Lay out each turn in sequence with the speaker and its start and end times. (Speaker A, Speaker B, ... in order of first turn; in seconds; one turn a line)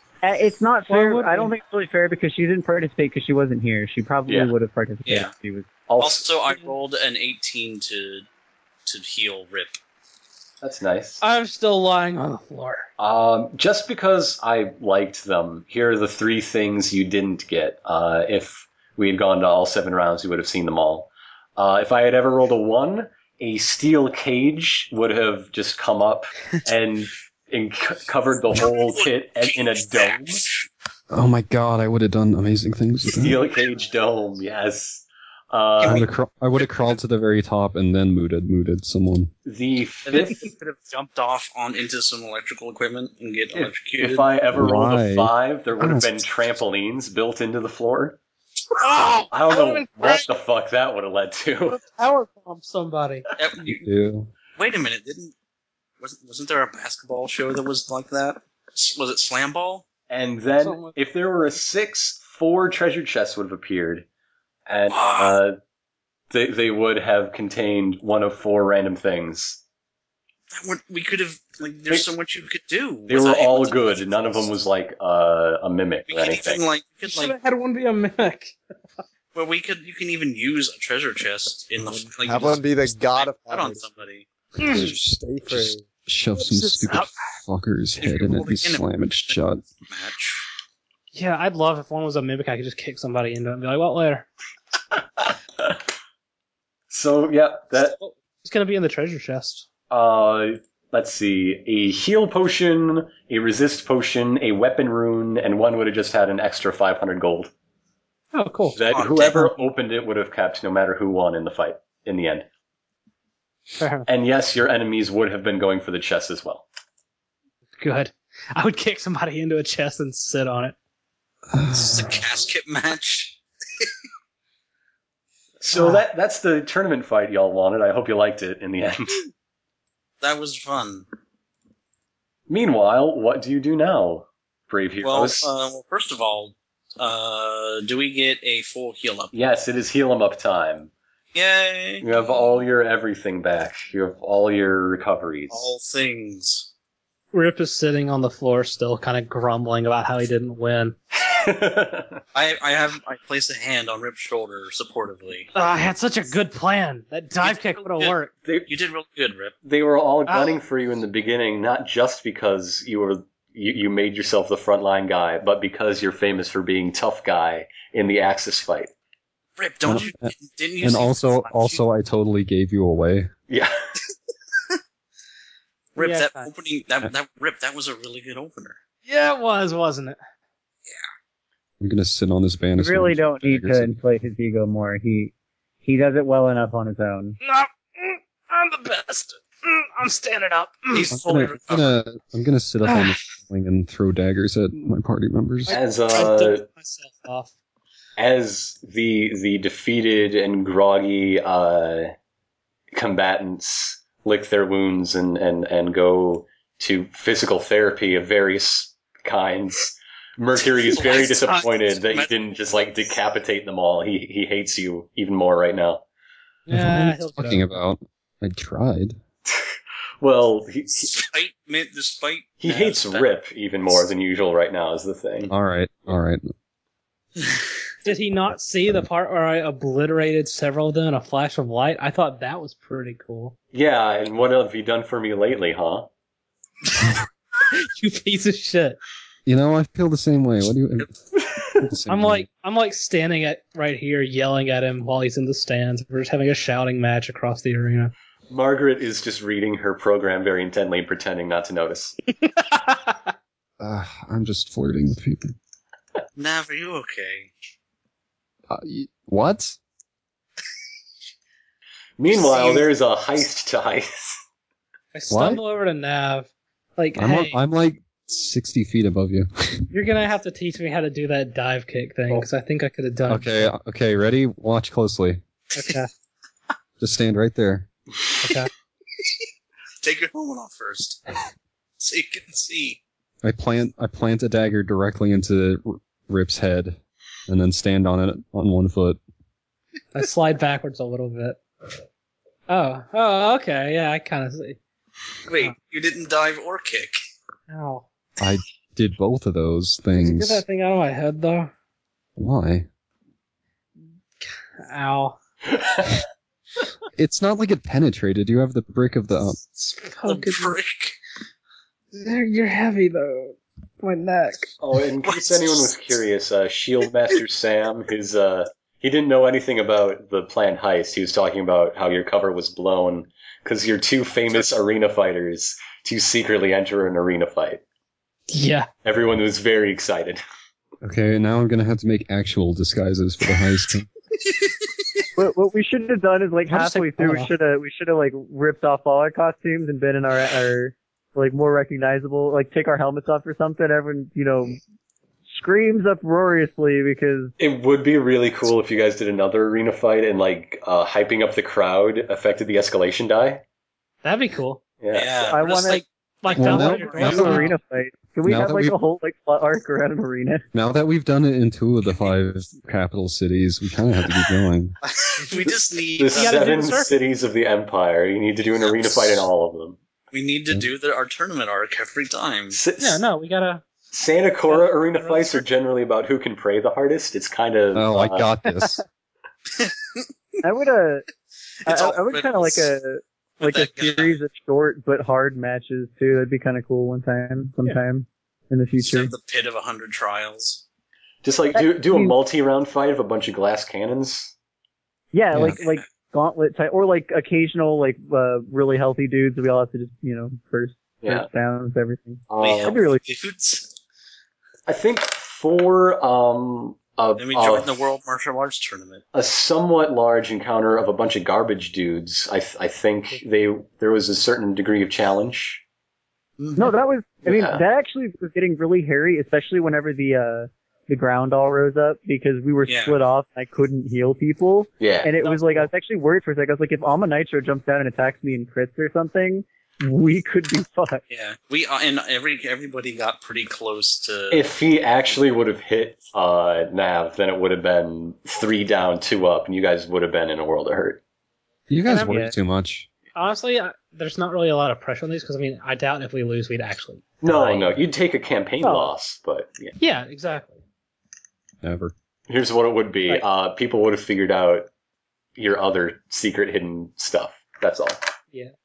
Speaker A: 0.2-5.7
Speaker B: 0.9-1.5
Speaker C: 5.1-5.3
Speaker D: 5.9-6.3
Speaker C: 6.0-8.3
Speaker C: 8.8-9.8
Speaker D: 10.6-11.2
Speaker B: 11.2-12.9
Speaker D: 13.0-30.4
Speaker C: 28.6-30.7
Speaker E: 31.1-33.4
Speaker D: 33.2-36.1
Speaker C: 35.8-36.1
Speaker E: 35.9-39.3
Speaker D: 39.5-40.4
Speaker C: 40.1-44.3
Speaker D: 43.5-48.2
Speaker E: 44.5-46.1
Speaker B: 48.8-50.3
Speaker D: 49.3-51.8
Speaker B: 51.7-53.3
Speaker C: 53.4-53.9
Speaker E: 53.6-54.3
Speaker C: 54.6-55.3
Speaker C: 56.0-59.9
Speaker D: 60.1-64.1
Speaker B: 60.6-61.0
Speaker D: 64.7-65.6
Speaker C: 64.9-65.3
Speaker D: 66.3-69.6
Speaker C: 70.5-74.5
Speaker D: 73.1-76.6
Speaker C: 76.1-77.3
Speaker B: 77.0-78.6
Speaker C: 79.3-84.3
Speaker F: 81.8-83.8
Speaker F: 84.6-85.9
Speaker B: 84.6-85.0
Speaker E: 85.5-89.6
Speaker B: 86.4-87.1
Speaker C: 88.0-90.5
Speaker B: 91.1-94.3
Speaker D: 95.2-95.8
Speaker D: 96.9-98.0
Speaker B: 97.8-99.7
Speaker D: 99.9-107.5
Speaker B: 108.3-108.8
Speaker D: 108.7-112.5
Speaker C: 108.9-109.5
Speaker B: 113.8-114.1
Speaker D: 114.1-116.7
Speaker B: 117.8-120.8
Speaker E: 121.5-122.2
Speaker C: 121.7-123.9
Speaker D: 125.6-129.3
Speaker B: 125.7-126.0
Speaker C: 130.2-131.1
Speaker D: 132.5-135.5
Speaker C: 135.0-139.3
Speaker D: 139.3-140.9
Speaker C: 141.3-142.1
Speaker D: 142.0-145.7
Speaker C: 145.5-146.7
Speaker B: 147.3-151.0
Speaker D: 151.1-152.2
Speaker C: 152.3-155.5
Speaker B: 155.5-158.3
Speaker C: 157.4-158.2
Speaker C: 158.7-159.6
Speaker D: 159.6-168.9
Speaker B: 160.3-160.6
Speaker C: 169.6-171.8
Speaker E: 169.8-173.3
Speaker D: 173.5-173.7
Speaker C: 175.9-178.8
Speaker B: 176.0-176.5
Speaker B: 179.1-180.2
Speaker E: 181.8-184.0
Speaker A: 182.8-185.3
Speaker A: 185.8-187.4
Speaker B: 187.4-191.2
Speaker C: 190.9-192.0
Speaker E: 191.1-195.8
Speaker B: 192.9-193.2
Speaker B: 195.7-197.5
Speaker D: 195.7-196.7
Speaker D: 198.2-202.1
Speaker D: 202.9-216.0
Speaker C: 210.9-212.3
Speaker B: 216.7-217.7
Speaker E: 216.7-219.2
Speaker D: 220.2-221.1
Speaker C: 221.1-223.4
Speaker D: 222.6-225.5
Speaker E: 225.5-226.5
Speaker B: 228.0-233.6
Speaker D: 233.7-236.1
Speaker B: 237.7-239.0
Speaker E: 239.5-241.1
Speaker E: 241.8-242.5
Speaker B: 242.1-248.1
Speaker D: 248.5-252.2
Speaker B: 252.4-253.3
Speaker E: 253.8-255.6
Speaker C: 256.4-257.5
Speaker E: 258.7-259.8
Speaker D: 262.2-264.4
Speaker B: 265.1-267.6
Speaker E: 265.3-265.6
Speaker E: 267.2-269.9
Speaker B: 269.9-273.7
Speaker E: 273.3-275.4
Speaker B: 275.8-276.1
Speaker E: 277.0-277.9
Speaker B: 278.4-278.7
Speaker C: 280.0-281.2
Speaker C: 282.0-283.0
Speaker E: 283.4-289.2
Speaker B: 290.1-291.6
Speaker B: 292.7-294.8
Speaker C: 295.5-297.2
Speaker B: 297.7-298.1
Speaker E: 298.4-300.6
Speaker B: 300.2-301.7
Speaker E: 302.4-302.9
Speaker B: 304.4-305.4
Speaker D: 305.7-306.2
Speaker E: 307.2-309.6
Speaker B: 309.7-310.8
Speaker C: 310.3-311.2
Speaker B: 312.1-314.7
Speaker D: 314.8-327.8
Speaker C: 315.2-315.9
Speaker B: 328.5-328.9
Speaker D: 329.0-330.4
Speaker E: 331.0-334.1
Speaker A: 335.4-344.8
Speaker B: 336.7-337.5
Speaker A: 345.5-347.5
Speaker D: 347.6-353.6
Speaker B: 354.2-354.8
Speaker D: 355.0-355.5
Speaker C: 355.1-357.4
Speaker A: 355.5-356.0
Speaker B: 355.9-357.8
Speaker E: 356.5-357.7
Speaker A: 357.1-360.6
Speaker E: 358.4-358.9
Speaker E: 360.7-365.0
Speaker C: 365.1-366.8
Speaker D: 366.2-370.0
Speaker B: 366.3-367.1
Speaker C: 369.0-369.4
Speaker C: 370.3-372.8
Speaker D: 372.7-373.2
Speaker B: 373.0-373.9
Speaker D: 374.1-378.5
Speaker B: 374.7-375.6
Speaker E: 377.9-379.0
Speaker C: 379.8-380.2
Speaker A: 380.6-381.3
Speaker C: 381.9-382.9
Speaker A: 381.9-389.3
Speaker C: 383.6-384.4
Speaker C: 389.0-390.8
Speaker D: 391.4-394.5
Speaker A: 391.8-392.4
Speaker A: 395.3-403.5
Speaker E: 395.5-395.8
Speaker C: 395.8-396.0
Speaker D: 402.5-402.9
Speaker C: 402.6-403.9
Speaker D: 404.9-408.0
Speaker C: 407.4-409.2
Speaker D: 409.3-415.8
Speaker C: 416.6-416.9
Speaker A: 416.8-431.2
Speaker D: 417.4-417.8
Speaker C: 422.9-423.2
Speaker D: 425.0-425.3
Speaker B: 425.4-425.9
Speaker C: 431.3-434.7
Speaker D: 434.5-441.2
Speaker E: 441.9-443.1
Speaker B: 442.1-442.5
Speaker A: 442.2-442.5
Speaker B: 443.3-448.0
Speaker D: 447.4-449.9
Speaker A: 448.8-449.1
Speaker B: 450.0-450.8
Speaker E: 451.8-452.1
Speaker D: 452.5-454.9
Speaker D: 455.6-458.2